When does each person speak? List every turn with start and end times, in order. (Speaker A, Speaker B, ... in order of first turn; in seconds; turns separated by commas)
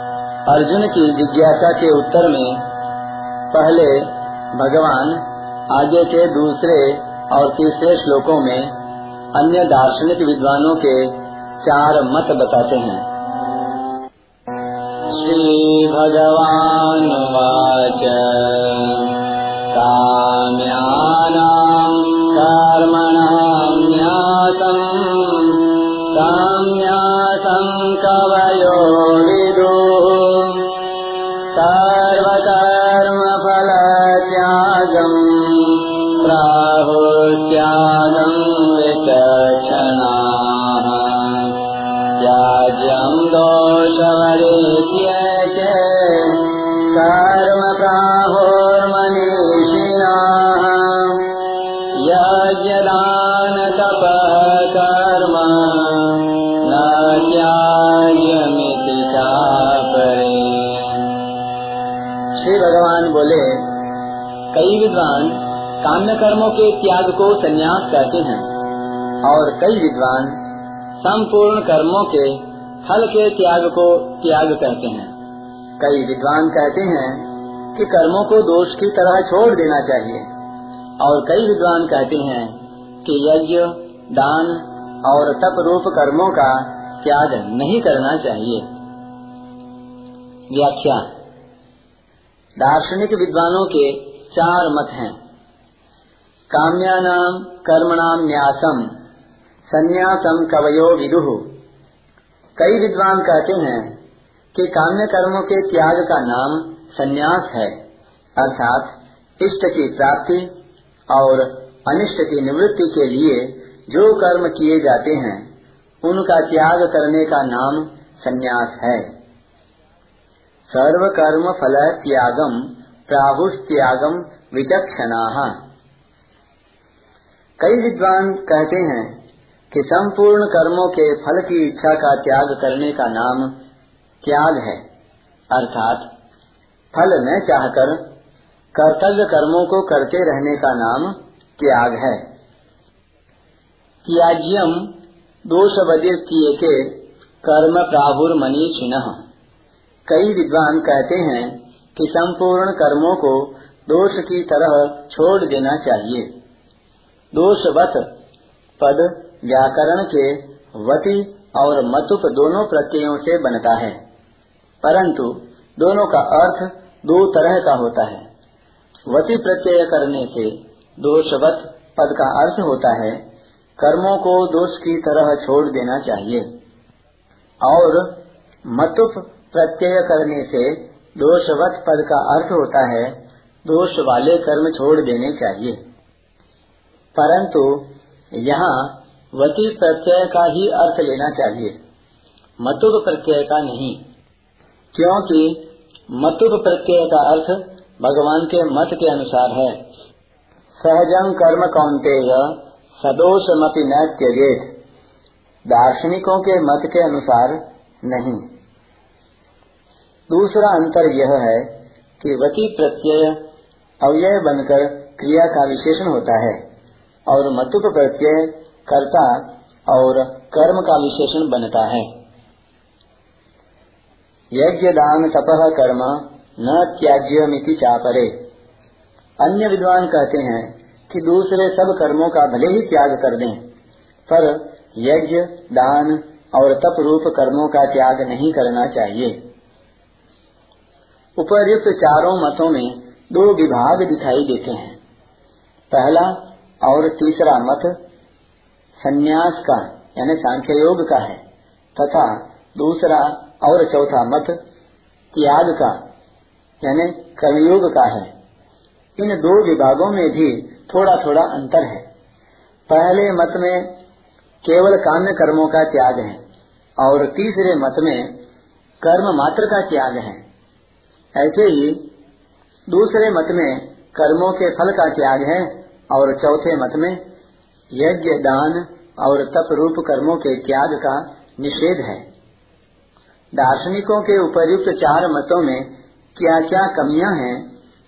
Speaker A: 0.5-2.7, Speaker A: 3.5-8.8, Speaker A: 9.3-13.1, Speaker A: 15.1-19.2, Speaker A: 19.7-30.7, Speaker A: 31.5-41.6, Speaker A: 42.2-51.3, Speaker A: 51.9-61.1, Speaker A: 62.4-63.7, Speaker A: 64.5-68.5, Speaker A: 69.2-70.4, Speaker A: 71.0-75.1, Speaker A: 75.8-80.3, Speaker A: 81.0-88.7, Speaker A: 90.5-91.0, Speaker A: 92.6-95.2, Speaker A: 96.5-98.9, Speaker A: 99.7-101.5, Speaker A: 102.6-103.9, Speaker A: 104.5-107.7, Speaker A: 108.4-110.5, Speaker A: 111.1-115.4, Speaker A: 116.0-119.0, Speaker A: 120.7-125.5, Speaker A: 127.6-129.1, Speaker A: 129.7-133.5, Speaker A: 134.2-134.8, Speaker A: 135.5-136.1, Speaker A: 136.9-138.0, Speaker A: 138.8-142.2, Speaker A: 144.1-144.9, Speaker A: 145.5-149.2, Speaker A: 150.1-156.3, Speaker A: 157.3-158.1, Speaker A: 158.8-164.0, Speaker A: 164.8-168.2, Speaker A: 169.1-173.2, Speaker A: 173.8-176.4, Speaker A: 177.6-178.1, Speaker A: 178.7-185.8, Speaker A: 187.2-191.8, Speaker A: 192.6-194.0, Speaker A: 194.9-199.8, Speaker A: 200.8-204.7, Speaker A: 205.7-208.4, Speaker A: 210.3-213.4, Speaker A: 214.0-216.6, Speaker A: 217.3-222.1, Speaker A: 224.5-228.3, Speaker A: 229.4-233.6, Speaker A: 234.3-239.4, Speaker A: 241.4-245.0, Speaker A: 245.9-247.9, Speaker A: 249.0-251.4, Speaker A: 252.0-254.6, Speaker A: 255.3-256.0, Speaker A: 256.8-258.3, Speaker A: 259.2-262.0, Speaker A: 262.9-263.9, Speaker A: 264.6-266.4, Speaker A: 267.0-268.3, Speaker A: 269.0-270.4, Speaker A: 271.4-272.0, Speaker A: 272.9-277.2, Speaker A: 277.9-282.2, Speaker A: 283.6-287.6